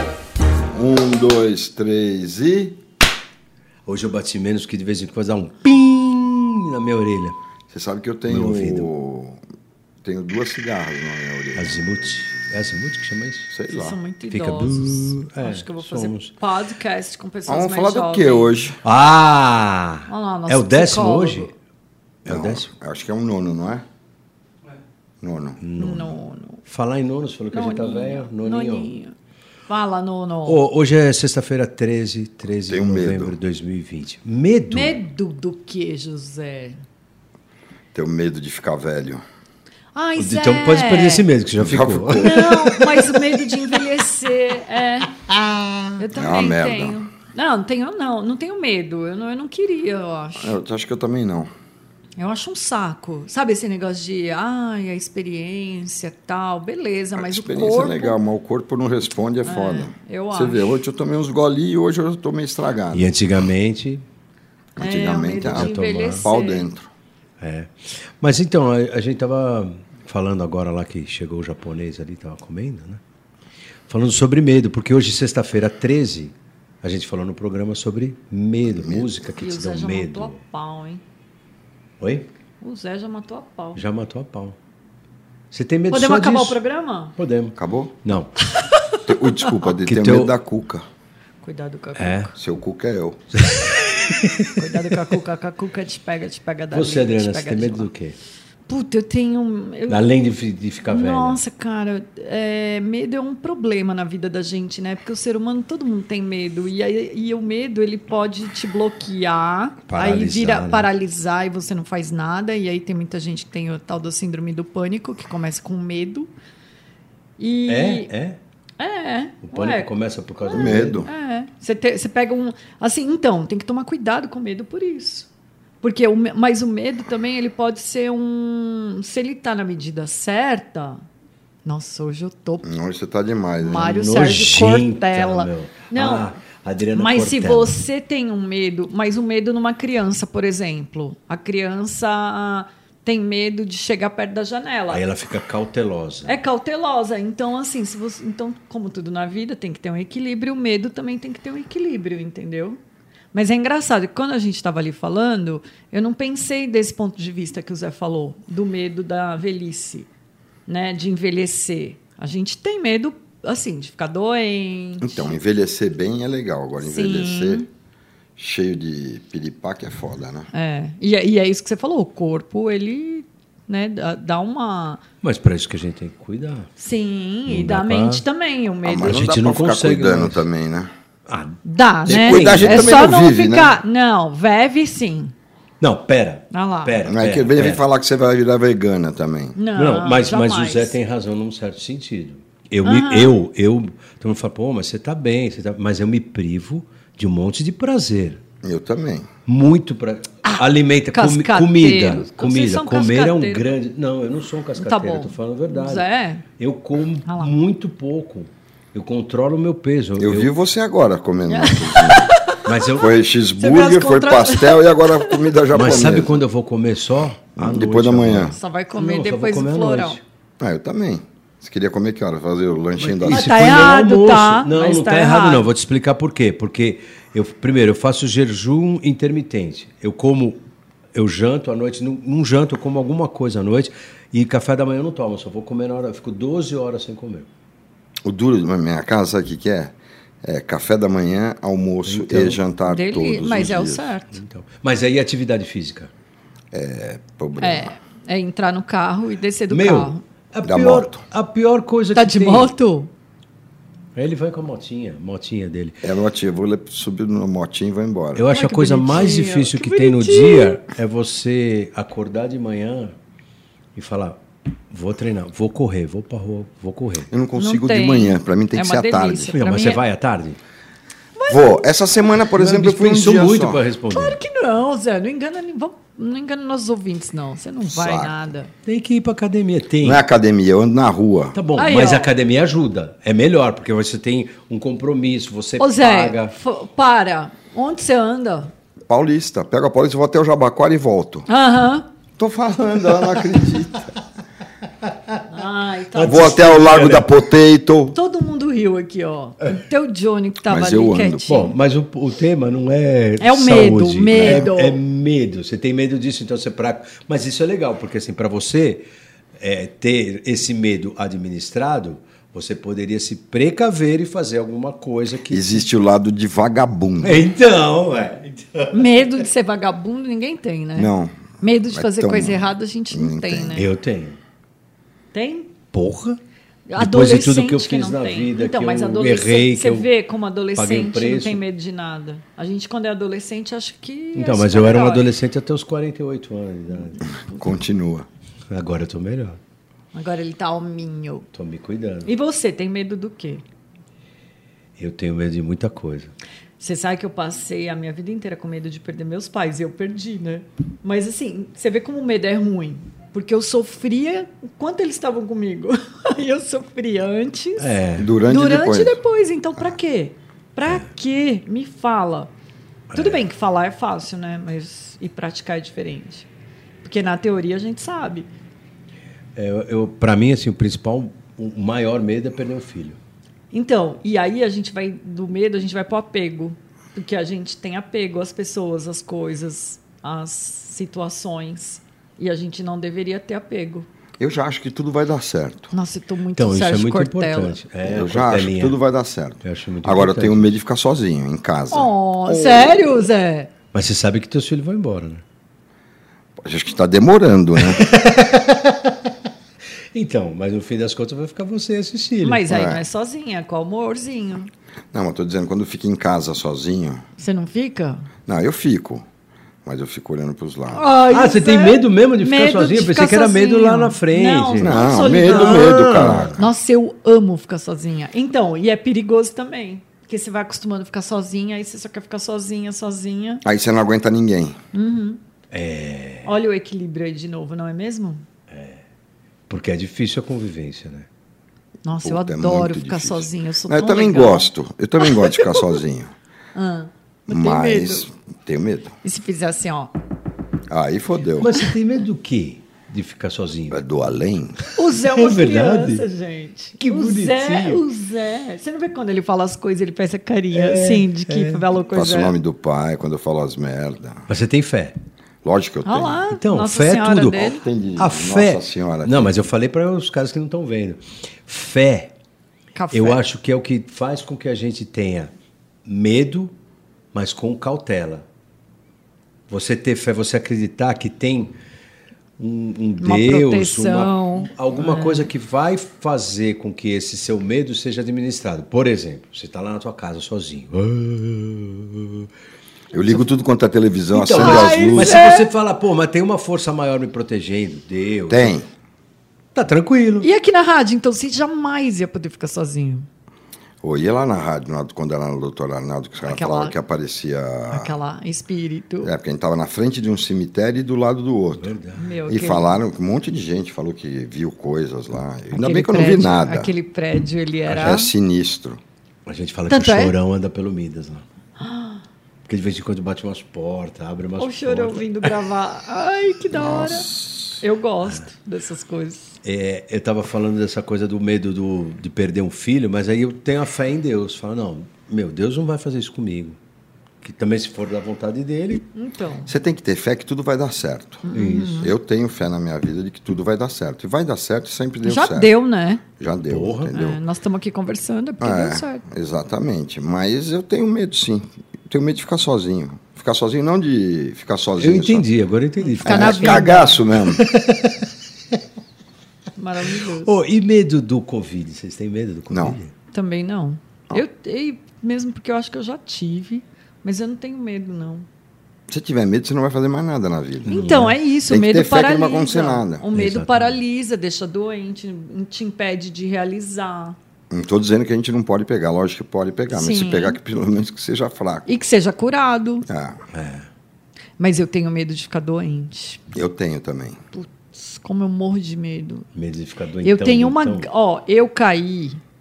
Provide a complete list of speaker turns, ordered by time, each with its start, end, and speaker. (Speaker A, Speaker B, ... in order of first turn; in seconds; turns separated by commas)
Speaker A: 0.7-2.8, Speaker B: 3.9-7.4, Speaker A: 7.7-9.4, Speaker B: 8.3-8.9, Speaker A: 10.0-12.1, Speaker B: 11.5-13.5, Speaker A: 13.5-14.0, Speaker C: 13.7-18.5, Speaker B: 14.3-16.3, Speaker A: 17.5-18.8, Speaker B: 18.8-21.5, Speaker C: 20.1-21.5, Speaker B: 22.2-22.7, Speaker A: 22.2-23.8, Speaker A: 25.2-25.6, Speaker B: 25.6-28.9, Speaker C: 25.8-26.6, Speaker C: 27.5-29.1, Speaker C: 29.7-30.6, Speaker B: 30.4-35.0, Speaker A: 32.7-33.4, Speaker C: 34.7-36.8, Speaker A: 37.9-39.2, Speaker C: 39.9-41.2, Speaker B: 40.2-43.8, Speaker A: 41.6-42.4, Speaker C: 42.2-45.1, Speaker B: 45.3-45.8, Speaker C: 46.0-50.6, Speaker A: 46.1-47.0, Speaker A: 50.4-51.5, Speaker C: 52.2-58.2, Speaker A: 57.1-63.1, Speaker C: 59.4-60.7, Speaker B: 62.9-64.0, Speaker A: 64.8-65.7, Speaker C: 64.8-66.7, Speaker B: 65.5-66.2, Speaker A: 66.2-66.9, Speaker B: 67.4-73.0, Speaker B: 73.9-80.3, Speaker A: 78.7-79.1, Speaker C: 79.4-81.0, Speaker B: 82.0-82.3, Speaker C: 82.6-83.8, Speaker B: 83.7-84.5, Speaker B: 85.5-86.6, Speaker C: 85.9-87.1, Speaker B: 87.2-88.3, Speaker A: 87.5-88.0, Speaker C: 88.4-89.0, Speaker A: 89.0-90.8, Speaker B: 89.8-90.3, Speaker C: 91.4-92.3, Speaker B: 92.0-92.3, Speaker A: 92.3-93.2, Speaker B: 93.3-95.0, Speaker C: 94.5-97.9, Speaker B: 96.7-98.2, Speaker C: 98.7-100.1, Speaker B: 99.9-101.4, Speaker C: 100.9-116.3, Speaker B: 109.9-110.9, Speaker C: 117.4-118.1, Speaker B: 117.7-118.4, Speaker C: 118.8-125.3, Speaker B: 119.5-121.0, Speaker A: 120.5-121.1, Speaker C: 125.8-131.0, Speaker C: 131.6-132.7, Speaker A: 132.6-134.0, Speaker C: 133.6-136.3, Speaker B: 133.8-137.8, Speaker C: 136.9-145.1, Speaker B: 144.9-146.3, Speaker C: 146.2-152.8, Speaker C: 153.3-160.1, Speaker C: 160.7-165.3, Speaker A: 165.0-167.6, Speaker C: 166.8-167.7, Speaker A: 168.4-170.5, Speaker C: 170.5-175.0, Speaker B: 175.2-176.7, Speaker C: 176.8-179.3, Speaker B: 177.5-178.2, Speaker A: 178.8-180.9, Speaker B: 179.0-180.4, Speaker B: 181.3-183.1, Speaker C: 181.6-185.3, Speaker A: 182.1-183.7, Speaker B: 185.8-187.8, Speaker C: 186.5-187.0, Speaker A: 187.0-189.6, Speaker C: 189.6-190.9, Speaker B: 189.8-198.4, Speaker C: 192.8-193.3, Speaker A: 198.6-199.3, Speaker B: 199.4-206.1, Speaker C: 200.4-203.7, Speaker C: 204.8-206.4, Speaker B: 206.6-210.5, Speaker C: 207.2-207.5, Speaker A: 210.2-212.4, Speaker C: 211.5-212.7, Speaker B: 212.6-213.1, Speaker A: 213.0-216.4, Speaker C: 213.5-215.5, Speaker B: 215.7-220.2, Speaker A: 217.6-218.5, Speaker C: 218.5-220.2, Speaker A: 220.6-223.5, Speaker B: 223.0-230.6, Speaker C: 223.3-225.7, Speaker B: 231.1-237.5, Speaker A: 238.2-244.1, Speaker B: 242.0-242.6, Speaker C: 242.9-244.4, Speaker B: 244.3-246.1, Speaker A: 246.7-247.9, Speaker C: 247.6-250.2, Speaker B: 249.7-252.7, Speaker A: 250.6-251.2, Speaker C: 252.1-253.1, Speaker B: 254.1-256.0, Speaker A: 256.0-258.5, Speaker B: 258.4-263.1, Speaker C: 258.5-260.8, Speaker B: 263.9-264.4, Speaker B: 264.9-267.3, Speaker A: 267.3-269.5, Speaker C: 267.6-270.0, Speaker B: 269.5-270.6, Speaker C: 271.4-271.8, Speaker A: 271.5-273.9, Speaker B: 272.6-274.4, Speaker C: 274.1-278.7, Speaker A: 277.9-278.5, Speaker B: 278.9-280.2, Speaker A: 280.0-281.6, Speaker B: 281.5-286.5, Speaker C: 281.8-282.3, Speaker C: 285.8-288.7, Speaker A: 289.1-291.5, Speaker C: 291.5-292.1, Speaker A: 292.4-294.1, Speaker C: 295.5-296.8, Speaker B: 296.1-297.3, Speaker A: 296.2-298.1, Speaker C: 298.1-301.7, Speaker A: 300.6-301.5, Speaker B: 301.5-309.1, Speaker C: 303.4-305.0, Speaker B: 309.6-315.8, Speaker A: 315.5-317.5, Speaker B: 317.2-319.3, Speaker C: 318.9-323.9, Speaker A: 320.9-323.8, Speaker B: 323.7-324.4, Speaker C: 325.3-325.7, Speaker B: 325.9-326.4, Speaker C: 326.9-335.3, Speaker B: 327.0-330.1, Speaker B: 330.8-331.6, Speaker B: 334.3-337.2, Speaker C: 337.1-337.7, Speaker A: 337.3-338.3, Speaker B: 338.7-339.6, Speaker C: 340.1-341.4, Speaker B: 341.5-342.3, Speaker C: 342.2-343.6, Speaker B: 345.0-346.3, Speaker C: 346.8-357.9, Speaker B: 357.8-358.3, Speaker A: 358.2-359.2, Speaker C: 358.4-362.5, Speaker B: 363.1-363.4, Speaker C: 363.1-366.5, Speaker C: 367.0-368.5, Speaker B: 369.6-373.2, Speaker C: 373.7-384.1, Speaker A: 384.4-385.9, Speaker C: 385.9-387.8, Speaker B: 386.6-388.9, Speaker A: 388.0-393.2, Speaker B: 389.6-390.8, Speaker C: 391.9-393.7, Speaker B: 393.9-395.4, Speaker A: 396.6-398.1, Speaker B: 397.8-399.3, Speaker B: 400.1-402.6, Speaker C: 402.4-404.7, Speaker A: 402.7-403.0, Speaker A: 405.1-407.2, Speaker C: 407.4-408.3, Speaker A: 408.5-409.2, Speaker A: 409.8-411.0, Speaker C: 410.9-416.0, Speaker B: 410.9-416.6, Speaker A: 414.8-416.6, Speaker C: 416.6-423.6, Speaker A: 423.6-424.8, Speaker C: 424.9-425.4, Speaker B: 425.7-426.5, Speaker C: 426.4-428.4, Speaker B: 428.7-429.0, Speaker B: 429.7-431.3, Speaker C: 432.0-434.7, Speaker A: 432.2-436.3, Speaker C: 435.2-436.0, Speaker C: 436.7-438.3, Speaker A: 437.5-439.1, Speaker C: 439.2-440.1, Speaker A: 440.9-441.7, Speaker B: 441.6-444.0, Speaker A: 443.9-444.8, Speaker C: 444.9-452.5, Speaker B: 445.2-446.2, Speaker B: 447.0-448.0, Speaker B: 450.7-451.8, Speaker A: 452.1-454.5, Speaker B: 454.5-455.1, Speaker A: 455.6-456.4, Speaker C: 456.0-457.8, Speaker B: 456.5-462.3, Speaker A: 457.6-459.5, Speaker C: 462.9-463.4, Speaker B: 463.1-465.5, Speaker B: 466.1-466.7, Speaker B: 467.3-468.4, Speaker B: 469.7-471.7, Speaker B: 472.6-482.5, Speaker C: 473.2-475.5, Speaker A: 483.1-485.4, Speaker B: 484.3-488.8, Speaker C: 484.5-485.7, Speaker A: 488.5-488.9, Speaker B: 489.7-490.5, Speaker C: 490.4-493.2, Speaker A: 494.0-498.1, Speaker C: 496.4-496.9, Speaker C: 497.9-499.3, Speaker A: 499.2-501.9, Speaker B: 501.8-502.4, Speaker C: 502.2-502.9, Speaker A: 502.5-506.9, Speaker C: 505.7-508.3, Speaker B: 507.9-508.2, Speaker A: 507.9-509.0, Speaker B: 509.4-511.4, Speaker C: 509.9-510.3, Speaker C: 511.8-512.2, Speaker B: 512.7-515.7, Speaker C: 514.6-519.6, Speaker A: 516.7-517.8, Speaker B: 519.6-526.8, Speaker B: 527.4-529.1, Speaker C: 529.1-529.7, Speaker A: 529.6-531.5, Speaker C: 531.5-532.1, Speaker B: 531.5-532.1, Speaker A: 532.0-535.7, Speaker C: 535.2-536.2, Speaker A: 536.4-537.4, Speaker B: 536.7-537.1, Speaker C: 537.1-539.2, Speaker A: 538.6-545.5, Speaker B: 545.0-548.8, Speaker C: 546.0-547.2, Speaker A: 546.2-547.6, Speaker C: 549.8-550.5, Speaker B: 550.4-553.1, Speaker A: 552.7-553.0, Speaker C: 553.3-558.5, Speaker A: 559.1-560.9, Speaker B: 560.8-561.4, Speaker C: 560.9-567.4, Speaker A: 561.7-563.2, Speaker B: 563.3-564.0, Speaker A: 567.7-571.9, Speaker C: 569.9-570.6, Speaker C: 571.9-573.0, Speaker A: 573.1-573.4, Speaker B: 573.5-573.9, Speaker C: 574.6-576.4, Speaker A: 576.5-577.4, Speaker C: 577.5-579.5, Speaker B: 579.5-581.1, Speaker C: 580.2-582.4